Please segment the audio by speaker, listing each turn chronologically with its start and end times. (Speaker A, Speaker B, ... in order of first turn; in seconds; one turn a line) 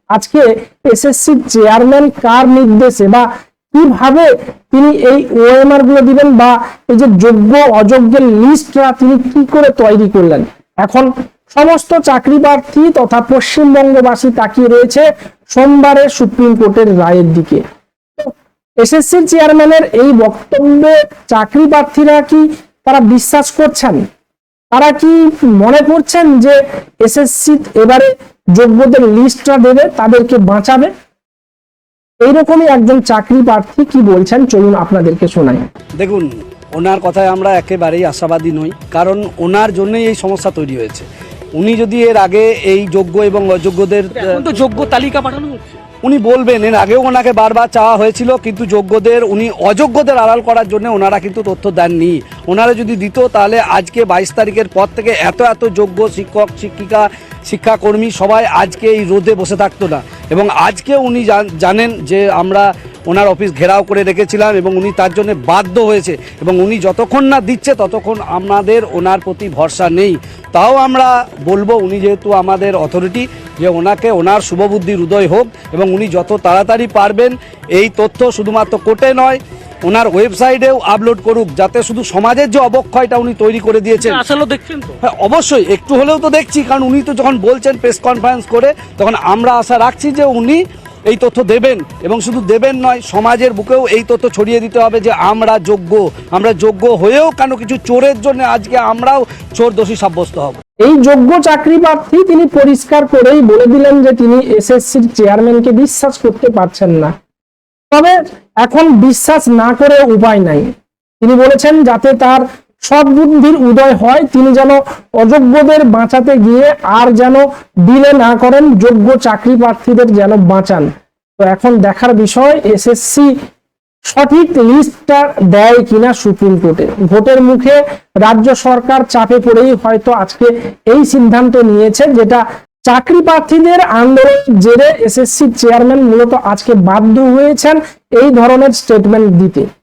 Speaker A: 0.1-17.6
Speaker A: 18.2-24.0
Speaker A: 24.7-30.9
Speaker A: 32.2-35.6
Speaker B: 36.0-44.8
Speaker C: 44.2-45.8
Speaker B: 45.9-84.2
Speaker C: 84.0-85.0
Speaker B: 85.0-100.6
Speaker A: 100.8-107.1
Speaker A: 107.9-123.3
Speaker A: 124.1-139.7